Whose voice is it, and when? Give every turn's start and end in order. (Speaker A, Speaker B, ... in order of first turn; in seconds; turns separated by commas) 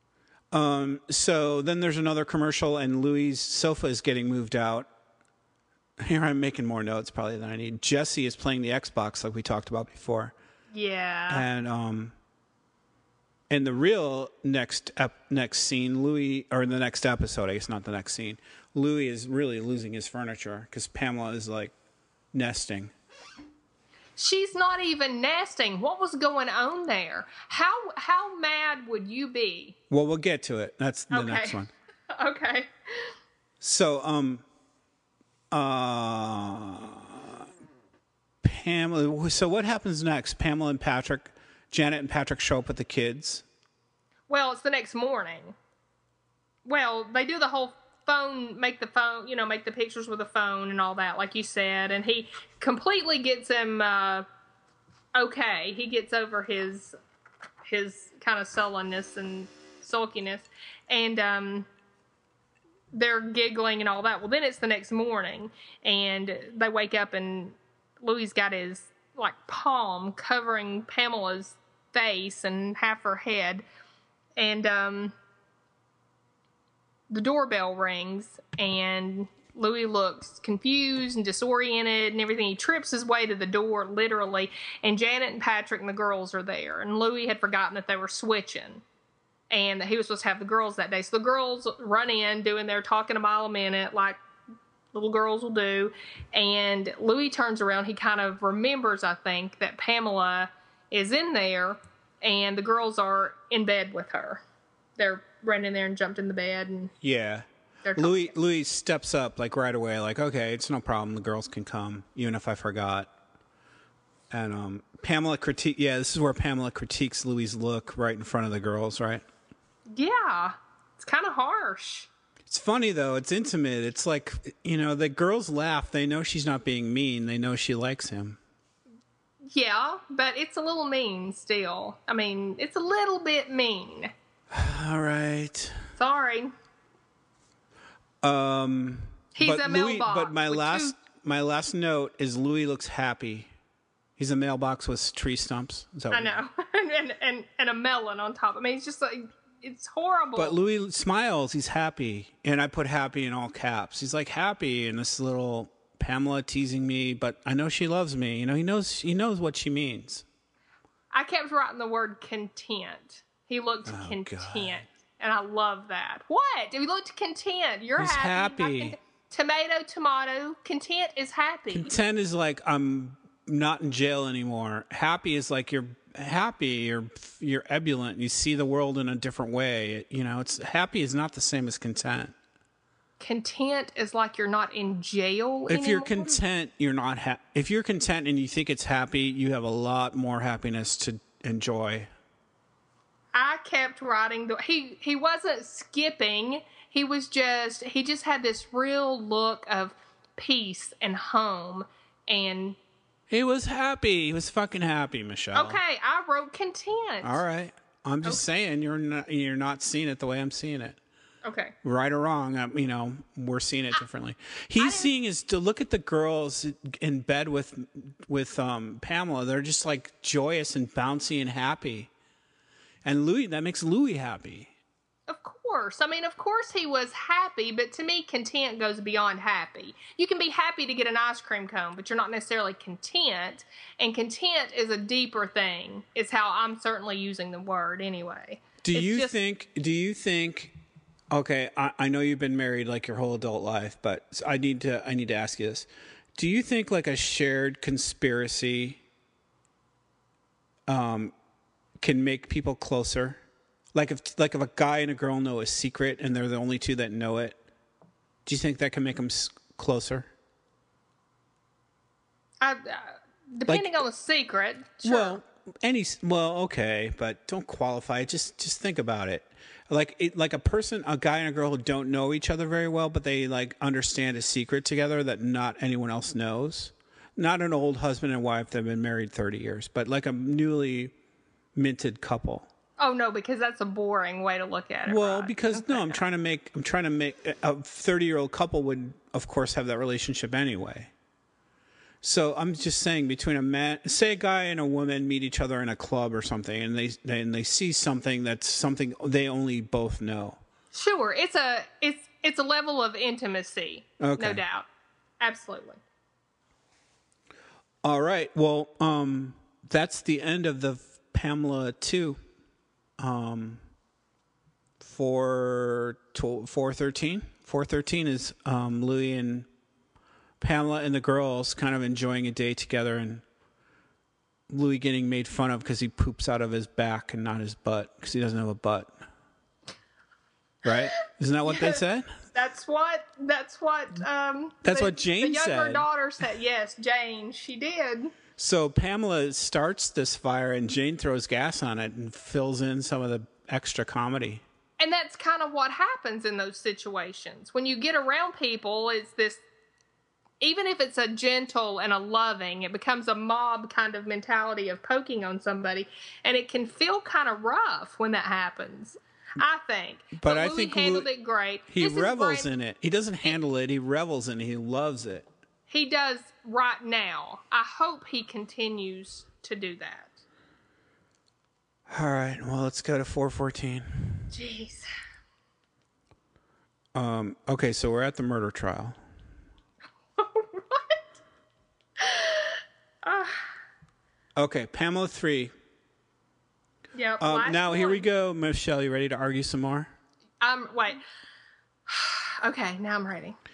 Speaker A: 0.5-4.9, Speaker A: 6.0-10.3, Speaker B: 10.7-11.4, Speaker A: 11.3-12.1, Speaker A: 13.5-21.7, Speaker A: 22.3-22.9, Speaker B: 24.2-29.8, Speaker A: 29.9-31.7, Speaker B: 31.1-31.6, Speaker B: 32.1-33.1, Speaker A: 33.6-34.4, Speaker A: 35.5-37.4, Speaker A: 38.4-43.5, Speaker B: 44.3-45.5, Speaker B: 46.6-54.2, Speaker B: 55.1-57.0, Speaker B: 57.7-61.7, Speaker B: 62.9-73.6, Speaker B: 74.4-75.1, Speaker B: 77.1-88.8, Speaker B: 89.5-94.2, Speaker B: 94.9-104.4, Speaker B: 105.0-106.9, Speaker A: 107.0-113.1, Speaker B: 107.8-108.3, Speaker A: 114.3-119.2, Speaker B: 119.9-122.1, Speaker A: 122.5-128.4, Speaker B: 129.5-134.1, Speaker A: 134.5-135.9, Speaker B: 135.9-136.5, Speaker A: 138.2-143.5, Speaker B: 139.4-140.9, Speaker A: 144.2-146.3, Speaker B: 146.1-150.6, Speaker A: 150.4-160.2, Speaker B: 161.1-171.9, Speaker A: 163.9-164.8, Speaker A: 168.0-168.9, Speaker A: 171.7-182.3, Speaker B: 183.2-186.4, Speaker A: 185.7-192.1, Speaker B: 193.3-202.8, Speaker A: 203.3-205.8, Speaker B: 205.5-207.4, Speaker A: 207.2-211.0, Speaker B: 211.4-211.7, Speaker A: 211.8-222.1, Speaker B: 214.8-215.1, Speaker A: 223.0-224.7, Speaker B: 225.3-239.3, Speaker A: 238.8-240.8, Speaker A: 241.3-249.0, Speaker A: 250.9-251.3, Speaker A: 252.0-253.4, Speaker A: 253.9-257.6, Speaker A: 258.4-260.3, Speaker B: 262.6-265.4, Speaker A: 263.7-264.0, Speaker A: 265.0-281.1, Speaker A: 281.7-282.7, Speaker B: 283.0-286.2, Speaker A: 285.1-291.1, Speaker A: 292.2-300.6, Speaker B: 300.9-304.9, Speaker A: 304.2-304.6, Speaker B: 305.4-306.0, Speaker A: 308.0-312.4, Speaker A: 313.2-313.8, Speaker A: 315.0-319.7, Speaker A: 320.6-323.4, Speaker A: 324.7-329.1, Speaker A: 330.8-332.4, Speaker B: 331.7-332.0, Speaker B: 332.5-338.3, Speaker A: 334.8-336.1, Speaker A: 338.6-344.6, Speaker B: 345.0-349.6, Speaker B: 350.6-362.7, Speaker A: 360.4-361.3, Speaker A: 361.9-365.4, Speaker B: 365.9-370.3, Speaker A: 372.1-374.5, Speaker B: 374.5-375.1, Speaker A: 377.1-379.2, Speaker B: 380.4-381.2, Speaker B: 382.2-383.7, Speaker A: 384.6-385.7, Speaker B: 387.1-388.2, Speaker A: 387.4-390.1, Speaker B: 390.6-391.2, Speaker B: 392.1-393.6